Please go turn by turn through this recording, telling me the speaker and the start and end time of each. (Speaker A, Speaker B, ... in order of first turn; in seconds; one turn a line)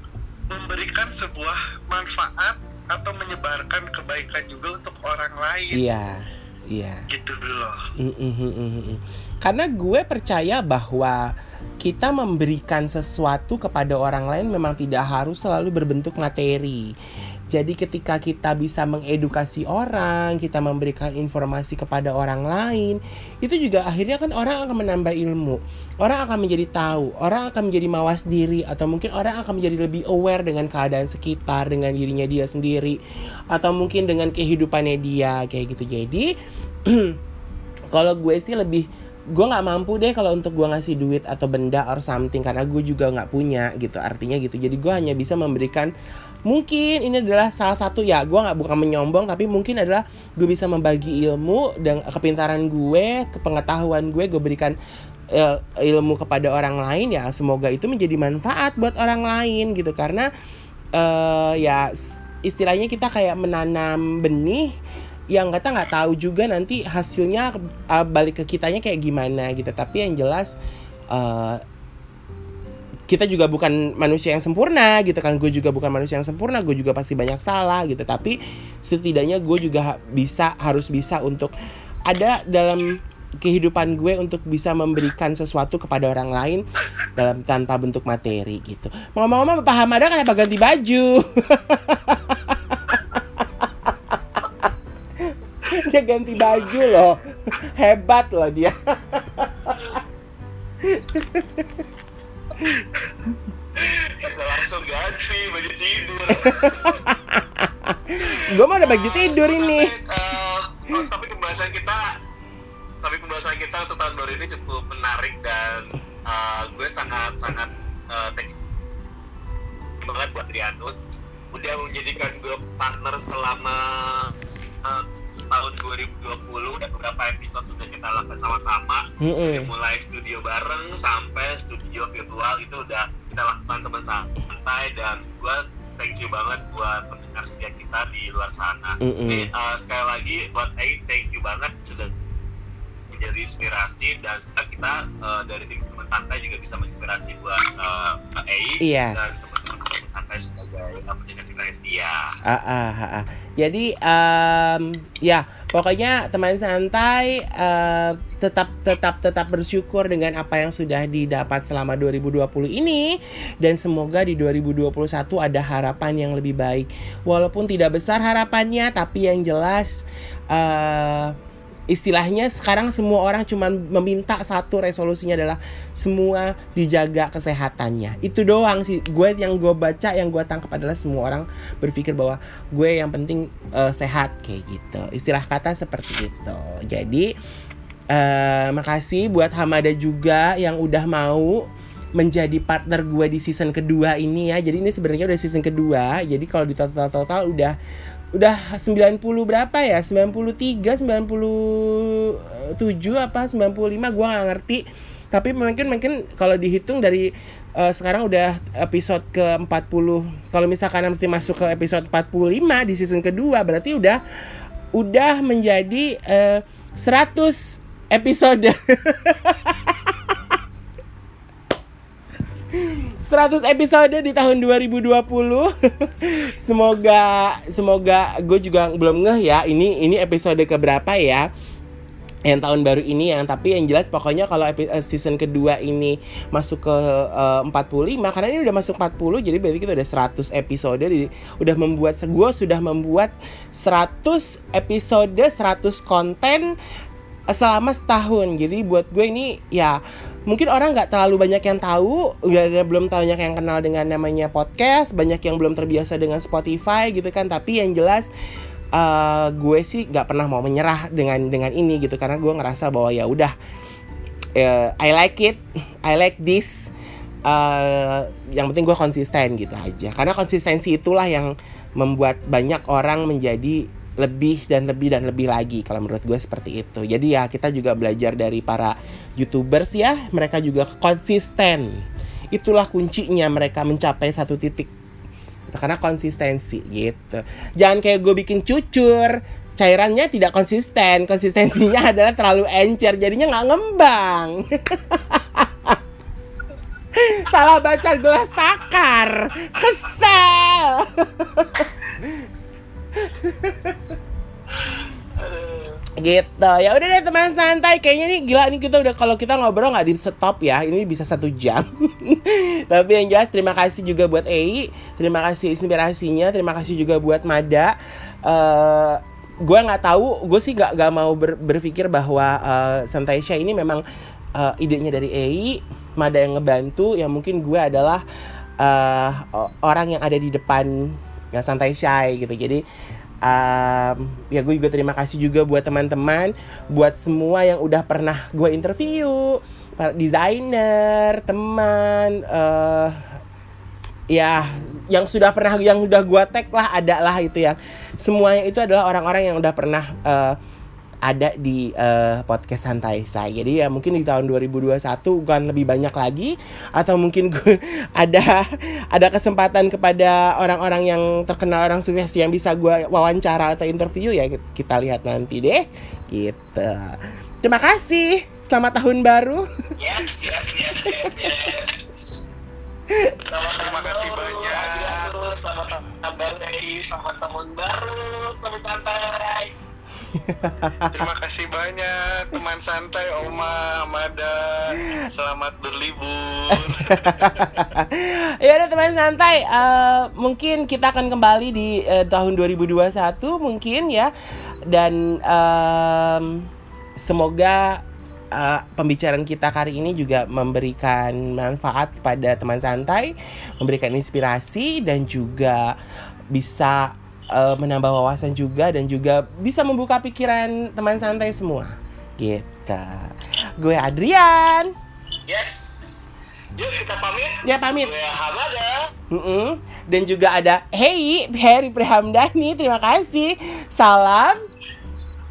Speaker A: 0.5-5.8
Speaker B: 5.7-7.0
Speaker A: 7.1-7.8
Speaker B: 8.0-11.3
Speaker B: 11.8-16.9
Speaker B: 17.5-33.0
Speaker B: 33.5-36.3
Speaker B: 36.9-37.2
Speaker B: 37.9-45.9
Speaker B: 46.5-54.8
Speaker B: 55.3-60.3
Speaker B: 61.0-61.9
Speaker B: 62.4-64.7
Speaker B: 65.3-70.5
Speaker B: 71.1-71.6
Speaker B: 73.1-81.5
Speaker B: 82.1-86.6
Speaker B: 87.1-100.0
Speaker B: 100.8-101.8
Speaker C: 103.8-107.0
Speaker B: 106.4-109.9
Speaker C: 108.2-112.1
Speaker C: 113.0-118.5
Speaker C: 120.0-121.0
Speaker C: 121.5-124.3
Speaker C: 124.8-142.1
Speaker B: 129.2-129.7
Speaker B: 139.0-139.5
Speaker C: 143.1-152.3
Speaker B: 148.8-149.5
Speaker B: 152.5-171.3
Speaker B: 171.9-187.3
Speaker B: 188.1-191.7
Speaker B: 192.2-197.7
Speaker B: 198.3-204.8
Speaker B: 205.3-214.2
Speaker B: 214.9-220.4
Speaker B: 222.7-231.5
Speaker B: 232.4-246.7
Speaker B: 247.5-258.3
Speaker B: 258.9-263.5
Speaker B: 264.6-266.9
Speaker B: 267.5-282.0
Speaker B: 282.5-284.9
Speaker B: 285.7-296.0
Speaker B: 297.1-302.4
Speaker B: 303.1-304.1
Speaker C: 304.7-306.0
Speaker B: 306.2-317.9
Speaker B: 318.4-324.0
Speaker B: 324.6-328.2
Speaker B: 328.8-332.8
Speaker B: 333.4-343.3
Speaker B: 344.3-350.6
Speaker B: 351.3-369.7
Speaker C: 370.0-372.0
Speaker B: 371.0-371.3
Speaker B: 373.1-373.4
Speaker C: 373.4-379.7
Speaker A: 373.7-375.3
Speaker B: 380.3-381.2
Speaker A: 381.1-387.9
Speaker B: 386.7-394.3
Speaker B: 394.9-396.7
Speaker B: 397.2-398.0
Speaker B: 398.5-405.9
Speaker B: 406.5-414.9
Speaker C: 415.5-415.8
Speaker C: 416.8-419.1
Speaker B: 417.6-418.1
Speaker B: 419.3-424.6